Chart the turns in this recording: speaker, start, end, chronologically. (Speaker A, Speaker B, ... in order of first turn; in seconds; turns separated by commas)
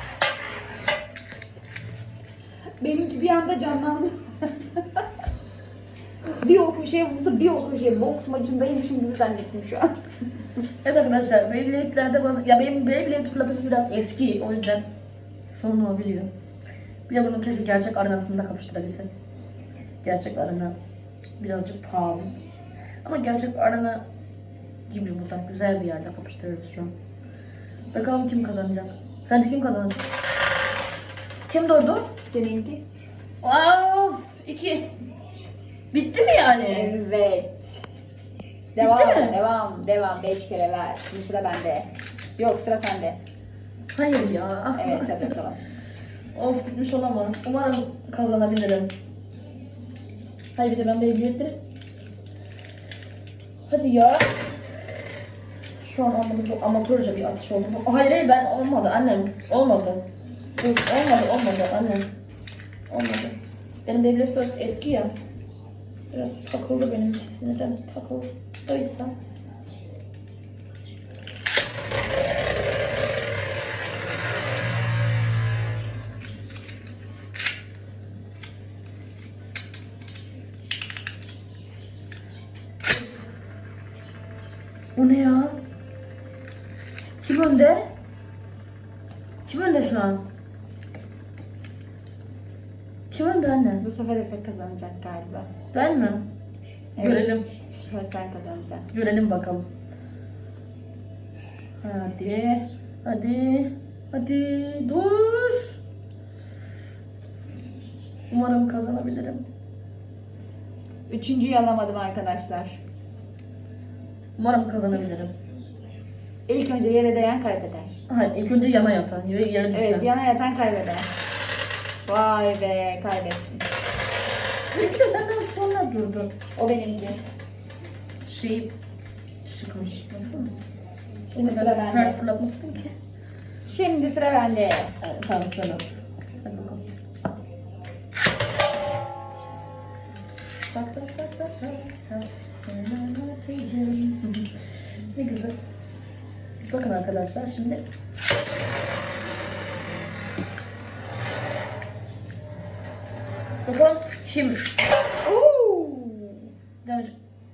Speaker A: 2.8-5.0, Speaker A: 6.4-9.9, Speaker B: 10.8-14.8, Speaker B: 15.5-16.3, Speaker B: 17.1-19.1, Speaker B: 20.0-20.8, Speaker B: 21.4-22.3, Speaker B: 23.0-24.0, Speaker B: 24.9-26.9, Speaker B: 27.9-30.1, Speaker B: 31.5-32.1, Speaker A: 32.2-32.8, Speaker B: 33.4-34.9, Speaker B: 35.9-37.0, Speaker A: 36.7-37.9, Speaker A: 38.7-43.2, Speaker B: 38.8-39.4, Speaker B: 43.9-45.3, Speaker A: 44.8-45.6, Speaker B: 46.3-48.9, Speaker B: 50.5-51.6, Speaker B: 53.7-54.4, Speaker B: 55.8-60.0, Speaker B: 60.6-62.1, Speaker B: 62.9-65.1, Speaker B: 66.1-69.1, Speaker B: 85.0-85.6, Speaker B: 87.2-87.9, Speaker B: 89.4-90.2, Speaker B: 93.1-93.8, Speaker A: 93.8-95.5, Speaker B: 95.7-96.2, Speaker A: 97.0-98.9, Speaker B: 97.0-97.5, Speaker B: 98.9-99.7, Speaker B: 101.8-105.8, Speaker B: 108.3-109.5, Speaker A: 111.1-112.8, Speaker B: 114.4-115.3, Speaker A: 116.5-117.9, Speaker B: 118.1-120.1, Speaker A: 119.7-121.1, Speaker A: 122.0-123.7, Speaker B: 124.7-126.3, Speaker A: 126.5-127.2, Speaker B: 128.2-128.7, Speaker B: 129.4-130.5, Speaker A: 131.3-132.2, Speaker B: 131.3-132.9, Speaker A: 133.7-134.9, Speaker B: 135.0-136.8, Speaker B: 140.6-144.5, Speaker B: 145.1-145.6, Speaker B: 146.6-147.8, Speaker B: 153.6-154.6, Speaker A: 155.2-156.5, Speaker B: 156.8-157.1